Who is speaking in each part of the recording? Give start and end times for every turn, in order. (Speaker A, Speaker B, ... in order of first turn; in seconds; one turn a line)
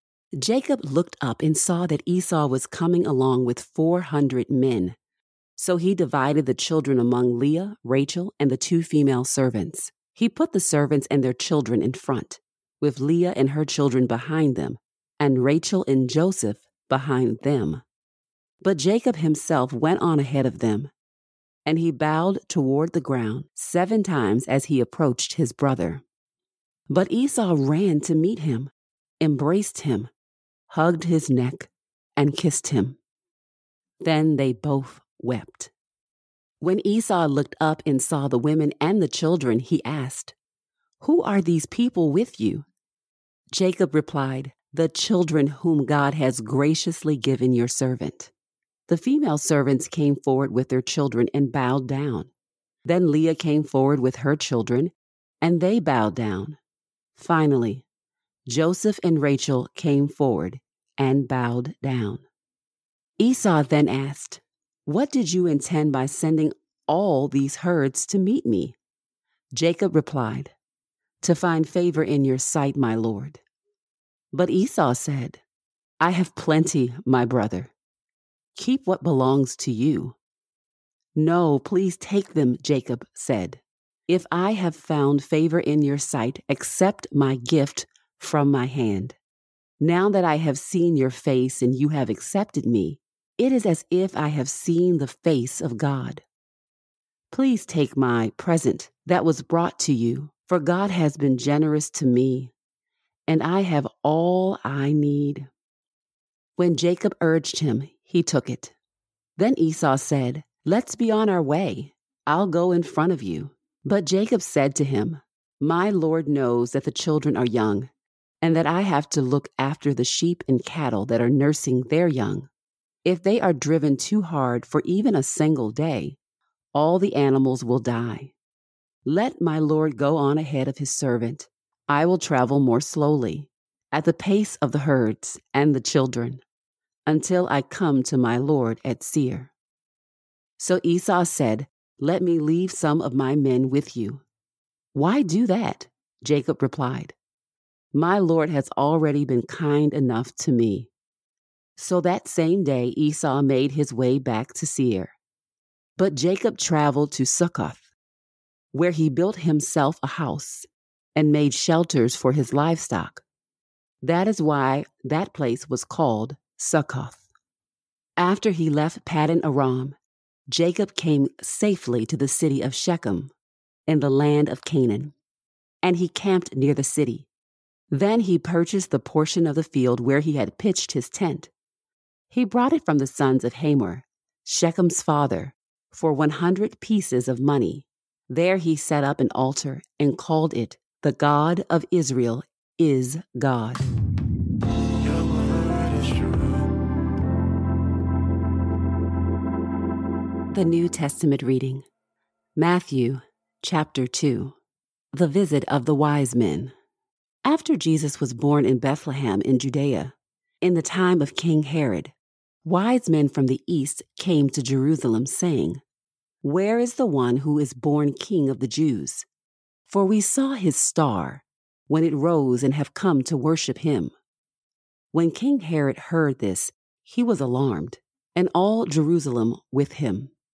Speaker A: 0.4-5.0
Speaker A: 5.6-17.8
Speaker A: 18.6-20.9
Speaker A: 21.6-26.0
Speaker A: 26.9-30.1
Speaker A: 30.7-33.0
Speaker A: 34.0-35.7
Speaker A: 36.6-40.4
Speaker A: 41.0-42.7
Speaker A: 43.5-48.3
Speaker A: 48.9-52.3
Speaker A: 52.9-56.6
Speaker A: 57.1-57.9
Speaker A: 58.5-62.2
Speaker A: 63.2-68.8
Speaker A: 69.5-70.5
Speaker A: 71.2-73.4
Speaker A: 74.3-75.4
Speaker A: 76.0-77.7
Speaker A: 78.5-80.2
Speaker A: 81.2-89.2
Speaker A: 89.8-96.2
Speaker A: 97.3-102.5
Speaker A: 103.3-105.5
Speaker A: 106.6-108.8
Speaker A: 109.4-117.9
Speaker A: 118.4-122.5
Speaker A: 123.0-126.2
Speaker A: 126.7-128.3
Speaker A: 129.1-136.4
Speaker A: 137.1-139.5
Speaker A: 140.6-144.2
Speaker A: 144.9-147.1
Speaker A: 147.9-150.9
Speaker A: 151.8-155.2
Speaker A: 156.0-157.9
Speaker A: 158.7-163.2
Speaker A: 164.0-167.2
Speaker A: 168.2-170.0
Speaker A: 170.5-173.3
Speaker A: 173.9-175.1
Speaker A: 175.8-177.3
Speaker A: 177.9-181.5
Speaker A: 182.3-193.8
Speaker A: 200.5-201.9
Speaker A: 202.6-204.6
Speaker A: 205.1-206.7
Speaker A: 207.4-212.1
Speaker A: 212.6-215.8
Speaker A: 216.4-219.3
Speaker A: 219.9-224.1
Speaker A: 225.1-230.3